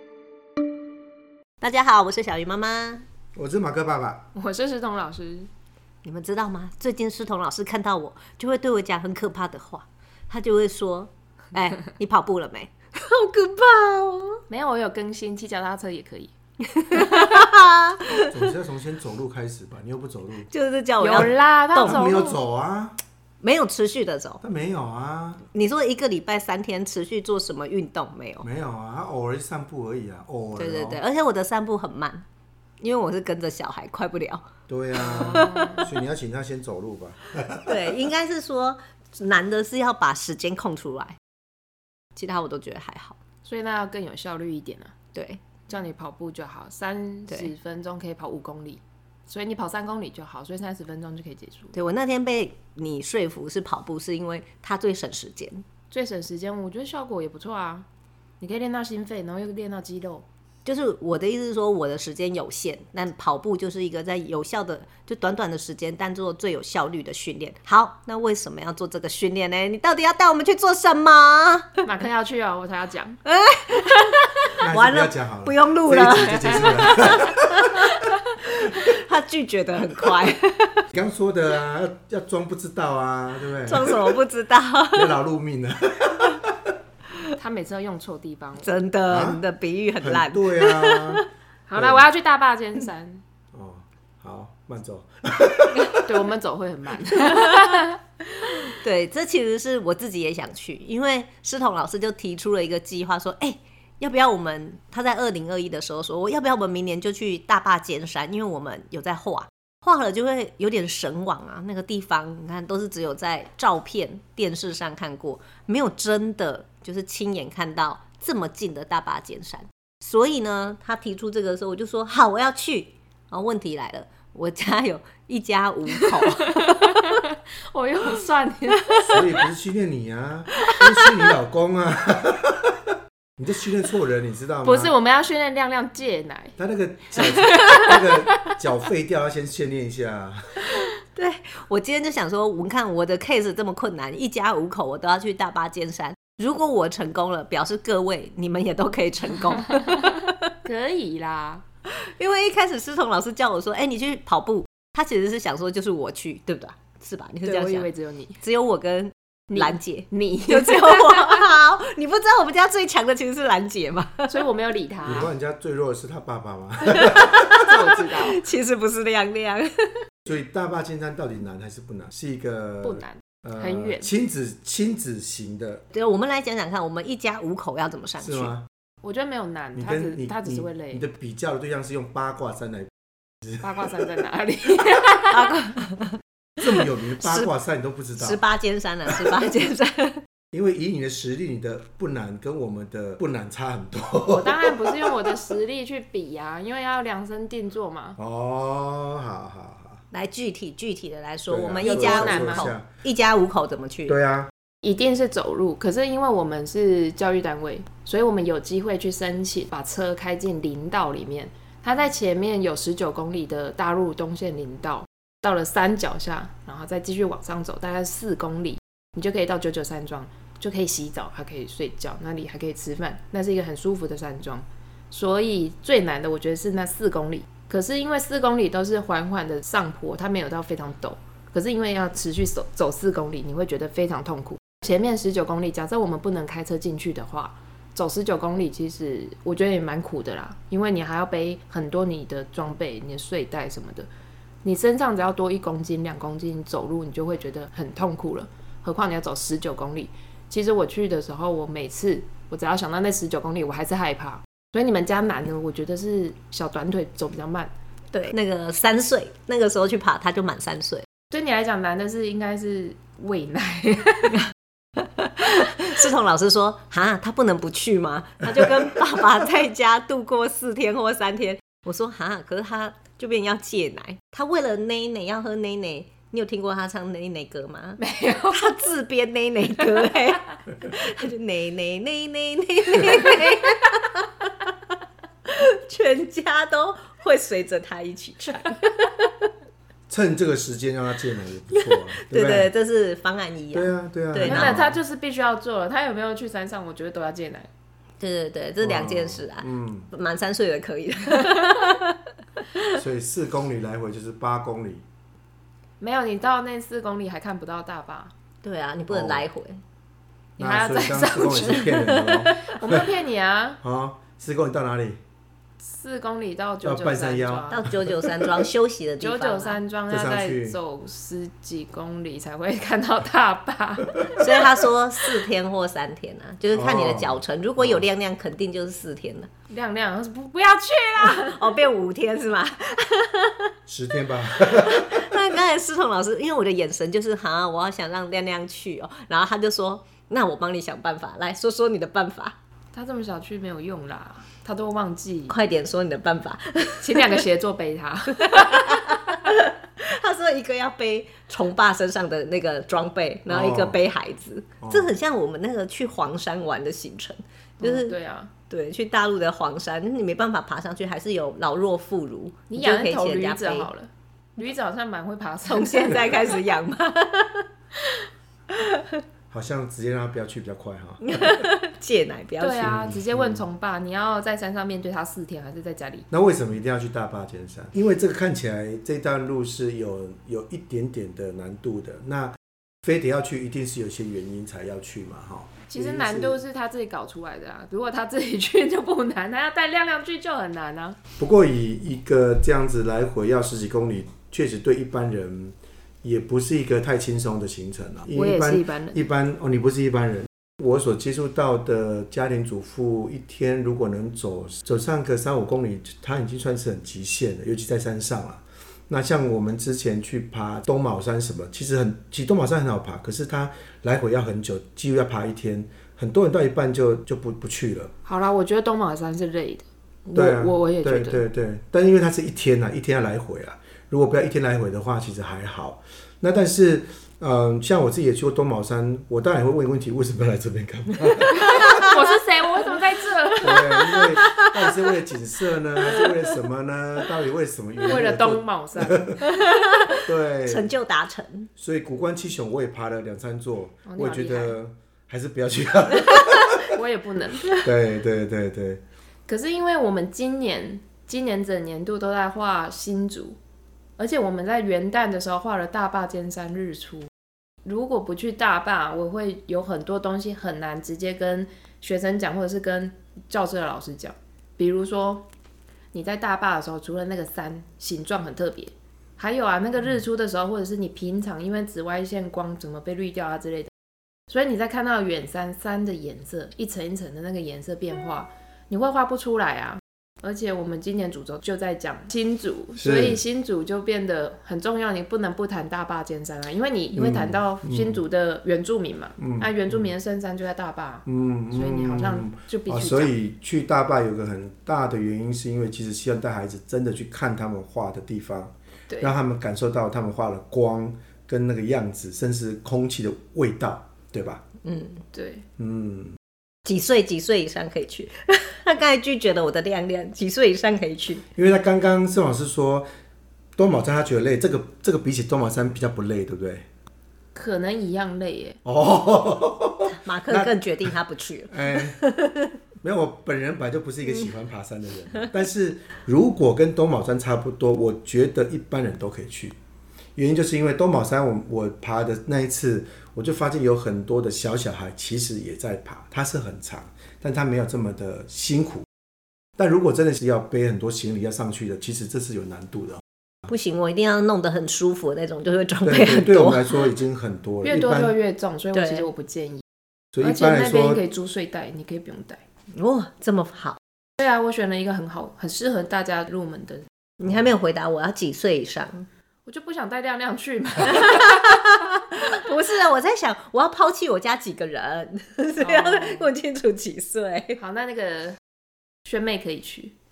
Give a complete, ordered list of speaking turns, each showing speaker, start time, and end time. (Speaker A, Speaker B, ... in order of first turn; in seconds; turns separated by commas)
Speaker A: 1.6-3.0, Speaker B: 3.4-4.2, Speaker C: 4.3-5.5, Speaker A: 6.0-14.4, Speaker C: 14.5-16.3, Speaker A: 16.7-18.5, Speaker C: 16.9-17.4, Speaker B: 18.3-20.5, Speaker A: 20.5-22.2, Speaker C: 21.0-22.4, Speaker B: 21.2-23.0, Speaker A: 23.4-24.4, Speaker B: 24.4-25.4, Speaker A: 25.5-28.5, Speaker B: 28.4-31.0, Speaker A: 30.6-32.2, Speaker A: 32.8-34.4, Speaker B: 34.7-37.8, Speaker A: 35.0-35.9, Speaker C: 35.0-35.9, Speaker A: 37.6-41.2, Speaker A: 42.2-43.2, Speaker C: 43.4-45.0, Speaker A: 45.1-45.4, Speaker C: 45.7-51.7, Speaker A: 51.7-55.6, Speaker C: 55.9-57.9, Speaker C: 58.4-60.3, Speaker A: 60.6-71.8, Speaker C: 71.8-73.2, Speaker A: 73.3-80.8, Speaker B: 74.6-77.8, Speaker B: 80.9-84.2, Speaker A: 83.7-85.2, Speaker B: 84.9-86.6, Speaker C: 87.4-88.7, Speaker A: 88.6-91.3, Speaker B: 89.1-89.4, Speaker B: 90.0-91.2, Speaker C: 91.7-93.2, Speaker B: 91.7-92.1, Speaker B: 93.5-96.1, Speaker C: 96.0-97.9, Speaker A: 97.1-127.0, Speaker C: 126.6-129.0, Speaker A: 128.9-129.2, Speaker B: 129.1-132.8, Speaker B: 133.4-134.9, Speaker C: 134.6-136.6, Speaker B: 136.6-140.6, Speaker C: 137.2-138.0, Speaker A: 140.7-150.3, Speaker C: 150.7-151.6, Speaker A: 152.0-157.9, Speaker C: 157.4-158.4, Speaker A: 158.4-164.4, Speaker C: 159.5-161.4, Speaker C: 164.3-165.3, Speaker B: 165.1-167.5, Speaker A: 166.9-170.1, Speaker C: 167.6-168.4, Speaker B: 170.2-175.8, Speaker C: 172.8-174.1, Speaker A: 175.9-178.5, Speaker B: 178.2-178.7, Speaker C: 179.0-181.0, Speaker B: 179.8-182.9, Speaker B: 183.4-183.9, Speaker C: 183.6-185.5, Speaker A: 185.3-186.2, Speaker B: 186.6-188.4, Speaker A: 187.2-187.5, Speaker A: 188.2-190.2, Speaker B: 190.5-195.4, Speaker C: 194.3-198.2, Speaker B: 198.2-200.0, Speaker A: 200.1-204.2, Speaker B: 201.5-202.9, Speaker C: 201.8-202.7, Speaker B: 204.1-204.5, Speaker C: 204.8-244.1, Speaker C: 244.6-257.7, Speaker A: 258.1-261.1, Speaker C: 261.3-264.4, Speaker A: 265.0-278.0, Speaker C: 278.0-278.6, Speaker A: 278.5-284.7, Speaker A: 285.5-289.5, Speaker B: 290.1-292.7, Speaker A: 291.8-294.8, Speaker B: 293.7-295.0, Speaker C: 294.4-297.7, Speaker A: 298.2-302.1, Speaker B: 298.8-300.1, Speaker B: 302.9-305.1, Speaker C: 306.0-308.3, Speaker A: 308.6-309.8, Speaker B: 309.1-309.5, Speaker B: 310.6-313.1, Speaker C: 310.6-311.9, Speaker A: 311.4-312.7, Speaker C: 312.6-313.8, Speaker B: 313.8-315.2, Speaker C: 315.8-317.9, Speaker B: 316.8-318.6, Speaker A: 317.7-319.8, Speaker C: 319.2-324.6, Speaker B: 320.1-320.8, Speaker A: 324.4-329.5, Speaker B: 326.7-328.1, Speaker C: 329.7-331.6, Speaker A: 331.2-333.7, Speaker B: 333.9-335.3, Speaker A: 334.6-342.6, Speaker C: 342.9-345.6, Speaker A: 345.5-347.4, Speaker C: 347.0-349.0, Speaker A: 348.4-358.1, Speaker B: 353.5-354.0, Speaker B: 354.8-355.2, Speaker C: 357.8-358.5, Speaker A: 358.7-363.9, Speaker C: 362.7-366.6, Speaker A: 365.7-367.7, Speaker A: 368.7-369.2, Speaker B: 369.5-371.6, Speaker A: 371.2-372.9, Speaker C: 372.6-376.3, Speaker B: 372.8-373.6, Speaker B: 376.3-386.6, Speaker C: 385.9-391.2, Speaker B: 391.4-418.1, Speaker C: 398.3-399.2, Speaker C: 418.2-421.4, Speaker B: 420.3-432.0, Speaker A: 431.4-432.1, Speaker C: 431.6-434.2, Speaker B: 433.6-439.4, Speaker A: 434.0-435.1, Speaker A: 436.0-436.5, Speaker C: 438.1-439.5, Speaker A: 439.4-441.7, Speaker B: 440.2-440.9, Speaker B: 441.8-446.9, Speaker C: 444.1-444.8, Speaker C: 446.9-447.9, Speaker B: 447.8-449.0, Speaker C: 449.5-453.6, Speaker C: 454.2-457.3, Speaker C: 457.8-465.5, Speaker C: 466.1-473.9, Speaker C: 474.5-493.3, Speaker B: 483.0-483.4, Speaker B: 487.1-488.2, Speaker B: 489.4-490.1, Speaker B: 491.3-504.6, Speaker C: 499.1-499.4, Speaker A: 504.9-505.2, Speaker C: 505.3-505.6, Speaker B: 505.8-506.4, Speaker A: 506.9-511.4, Speaker B: 511.6-513.1, Speaker B: 513.8-516.9, Speaker C: 517.5-518.8, Speaker B: 518.8-520.8, Speaker A: 520.1-522.7, Speaker B: 521.7-522.2, Speaker B: 523.0-529.8, Speaker B: 530.4-539.1, Speaker B: 539.8-543.2, Speaker A: 543.7-547.1, Speaker B: 546.0-548.4, Speaker C: 547.8-549.8, Speaker A: 548.9-549.3, Speaker B: 550.3-551.2, Speaker C: 550.4-552.6, Speaker A: 552.9-554.0, Speaker C: 554.4-557.1, Speaker A: 557.4-559.3, Speaker C: 559.7-561.7, Speaker A: 561.1-567.8, Speaker C: 565.8-566.5, Speaker C: 567.8-568.6, Speaker C: 569.2-570.1